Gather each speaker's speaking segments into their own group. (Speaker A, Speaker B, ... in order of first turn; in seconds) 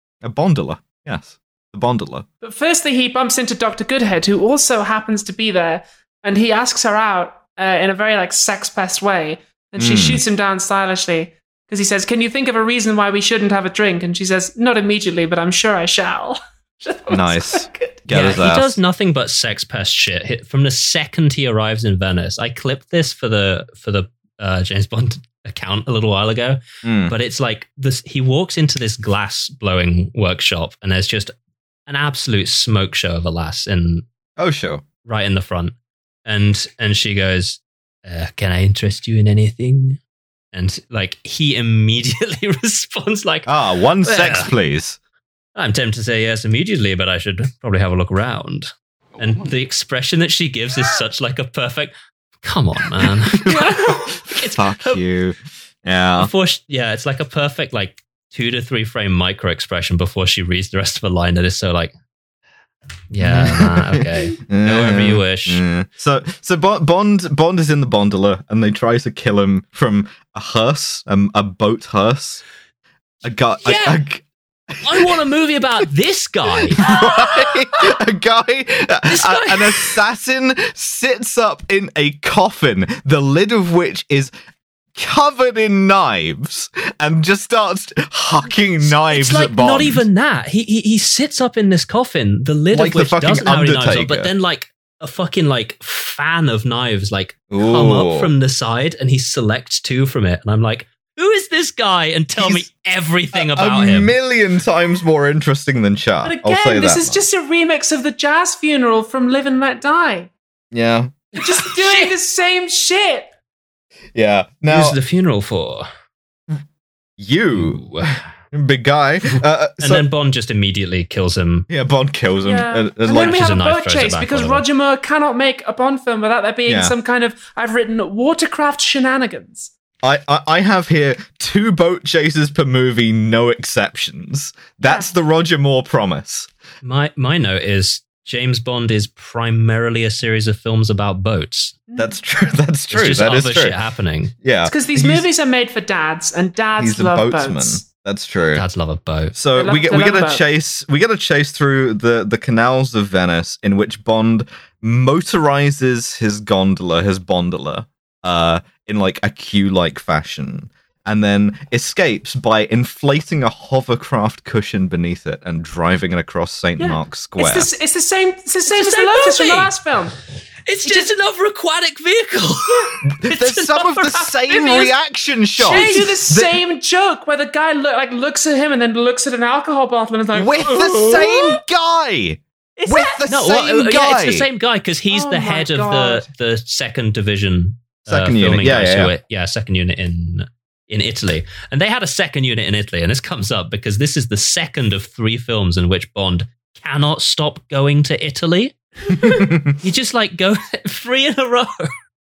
Speaker A: 0.2-2.2, 9.8-10.2, 17.1-18.8, 26.8-27.1, 34.4-34.8, 43.5-45.0, 53.0-56.3, 63.2-72.4, 73.2-75.2, 76.7-84.3, 84.9-90.0, 92.7-94.3, 97.5-98.3, 102.4-102.6, 103.3-107.2, 110.7-111.2, 114.1-115.0, 117.2-117.9, 118.5-120.1, 121.7-123.5, 126.7-126.9, 130.0-136.5, 141.9-143.8, 144.4-145.2, 146.8-148.6, 149.3-167.7, 173.1-176.6, 180.3-184.5, 188.1-189.1, 199.2-199.7
Speaker B: 2.4-18.0, 53.5-54.2, 106.2-110.3, 111.3-113.3, 122.4-129.7, 141.9-142.2, 144.7-147.8, 149.5-150.4, 166.8-170.2, 172.7-173.0, 174.5-174.9, 175.6-181.6, 182.8-183.2, 185.1-186.3
Speaker C: 18.1-31.3, 31.9-34.0, 35.0-35.7, 36.2-40.0, 40.5-43.5, 44.0-44.5, 45.5-51.9, 52.4-53.5, 54.3-55.0, 56.2-61.9, 63.1-65.6, 73.6-74.0, 74.8-76.9, 79.1-80.0, 88.8-104.1, 111.4-112.1, 114.7-115.9, 117.5-118.3, 119.3-121.7, 123.1-124.6, 136.8-141.8, 142.9-144.3, 148.5-149.3, 168.7-169.7, 170.7-174.4, 175.6-176.2, 183.3-201.9